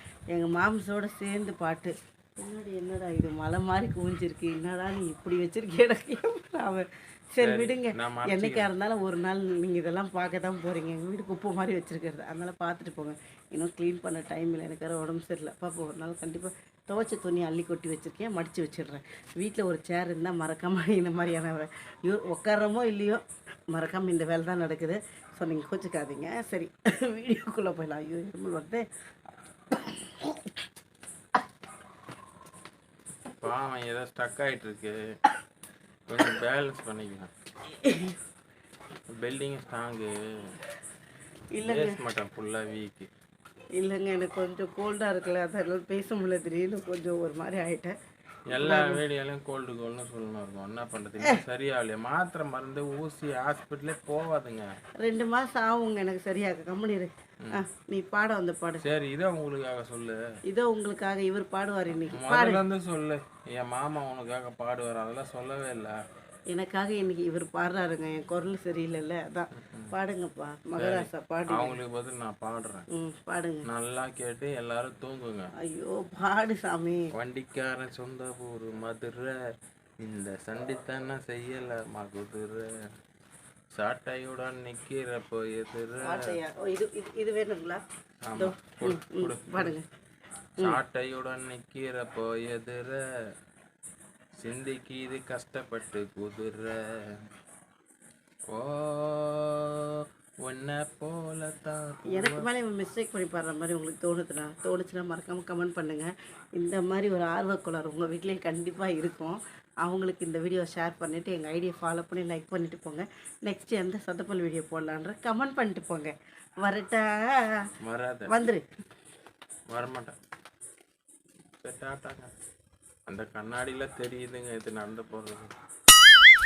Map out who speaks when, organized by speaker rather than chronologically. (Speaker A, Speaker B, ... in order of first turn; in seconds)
Speaker A: 0.3-28.8, 29.7-30.5, 37.7-38.2, 41.5-42.0, 43.8-47.9, 48.5-49.0, 55.0-58.8, 60.5-62.6, 66.5-71.8, 72.9-73.7, 75.6-77.0, 86.0-87.8, 88.4-89.8, 102.1-117.6, 118.3-118.6
Speaker B: 7.4-8.7, 33.4-35.0, 36.1-37.3, 39.2-40.1, 41.6-43.1, 48.5-54.7, 58.8-60.2, 62.1-66.0, 69.5-69.9, 70.8-72.8, 73.7-75.5, 77.1-79.4, 80.0-82.7, 83.7-86.3, 88.3-89.8, 90.6-93.0, 94.4-97.1, 98.5-102.5, 117.8-118.3, 119.7-120.1, 121.6-122.3, 123.1-125.5